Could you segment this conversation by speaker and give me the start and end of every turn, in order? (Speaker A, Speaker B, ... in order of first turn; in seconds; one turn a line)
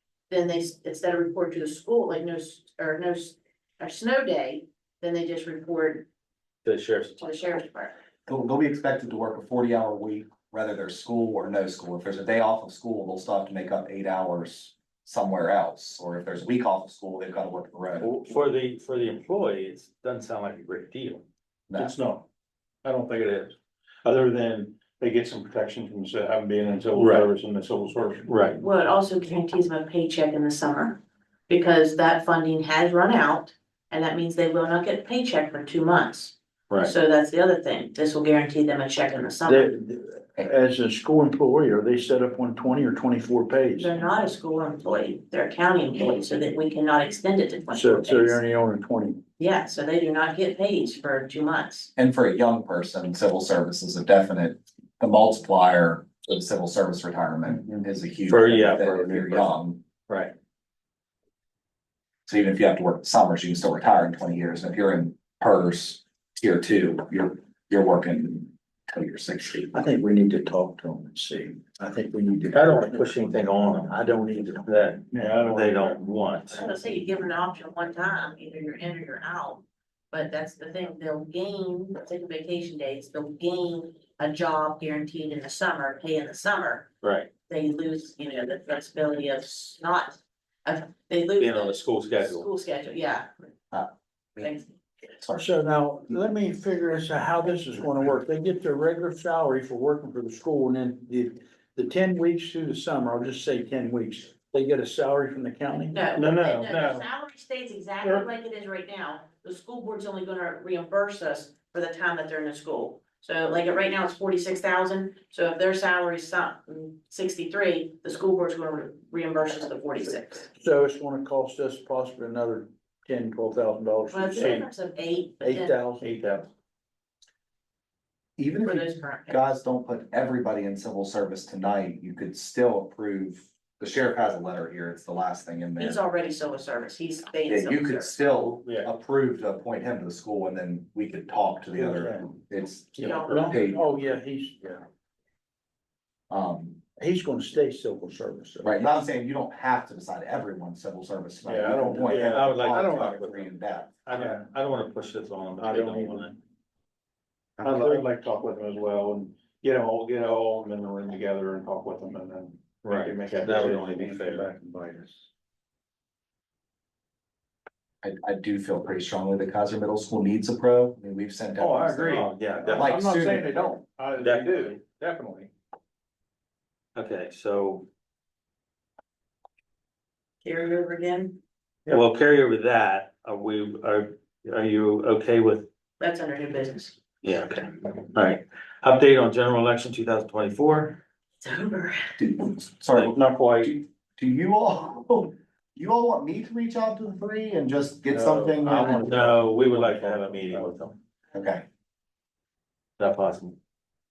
Speaker A: 0.3-6.1
Speaker B: 6.6-7.2
Speaker A: 7.2-7.9
Speaker C: 8.3-18.2
Speaker B: 18.0-21.2
Speaker D: 21.8-22.2
Speaker D: 22.8-28.4
Speaker B: 26.9-27.2
Speaker B: 28.3-28.6
Speaker A: 28.6-39.7
Speaker E: 39.5-44.0
Speaker A: 43.8-48.4
Speaker E: 47.7-49.2
Speaker A: 49.4-51.9
Speaker C: 52.0-59.8
Speaker B: 58.3-59.5
Speaker B: 60.1-60.3
Speaker C: 62.3-69.9
Speaker E: 69.7-75.3
Speaker B: 72.5-74.0
Speaker B: 74.6-76.6
Speaker D: 75.1-76.0
Speaker A: 76.5-86.9
Speaker B: 87.0-87.3
Speaker A: 87.5-93.3
Speaker B: 91.4-92.5
Speaker C: 93.7-94.5
Speaker A: 94.4-94.7
Speaker C: 95.1-95.5
Speaker E: 95.3-106.0
Speaker A: 105.9-120.5
Speaker B: 106.1-107.1
Speaker E: 120.5-124.6
Speaker A: 124.1-125.8
Speaker D: 124.3-124.7
Speaker E: 125.4-126.0
Speaker D: 126.0-126.5
Speaker C: 128.4-136.0
Speaker A: 128.6-129.4
Speaker A: 135.8-138.2
Speaker C: 137.5-144.2
Speaker E: 141.8-142.3
Speaker A: 143.0-143.7
Speaker E: 143.1-144.8
Speaker C: 146.3-146.8
Speaker E: 147.0-148.9
Speaker C: 148.6-154.0
Speaker D: 151.4-152.6
Speaker E: 151.8-152.2
Speaker B: 152.2-153.5
Speaker B: 154.1-156.3
Speaker D: 154.1-154.4
Speaker E: 155.6-156.2
Speaker E: 157.6-158.1
Speaker D: 157.6-164.4
Speaker B: 162.8-164.4
Speaker E: 163.4-165.3
Speaker C: 168.0-173.8
Speaker D: 171.6-175.5
Speaker E: 171.6-171.9
Speaker B: 172.1-172.9
Speaker B: 174.2-174.8
Speaker B: 176.9-177.9
Speaker A: 180.4-181.4
Speaker B: 181.9-185.7
Speaker A: 186.0-187.0
Speaker B: 187.2-191.0
Speaker A: 191.4-192.4
Speaker C: 192.2-199.0
Speaker D: 193.0-193.7
Speaker E: 198.1-199.5
Speaker B: 198.7-201.0
Speaker D: 199.0-200.7
Speaker E: 200.2-200.7
Speaker C: 201.3-201.7
Speaker B: 203.0-203.6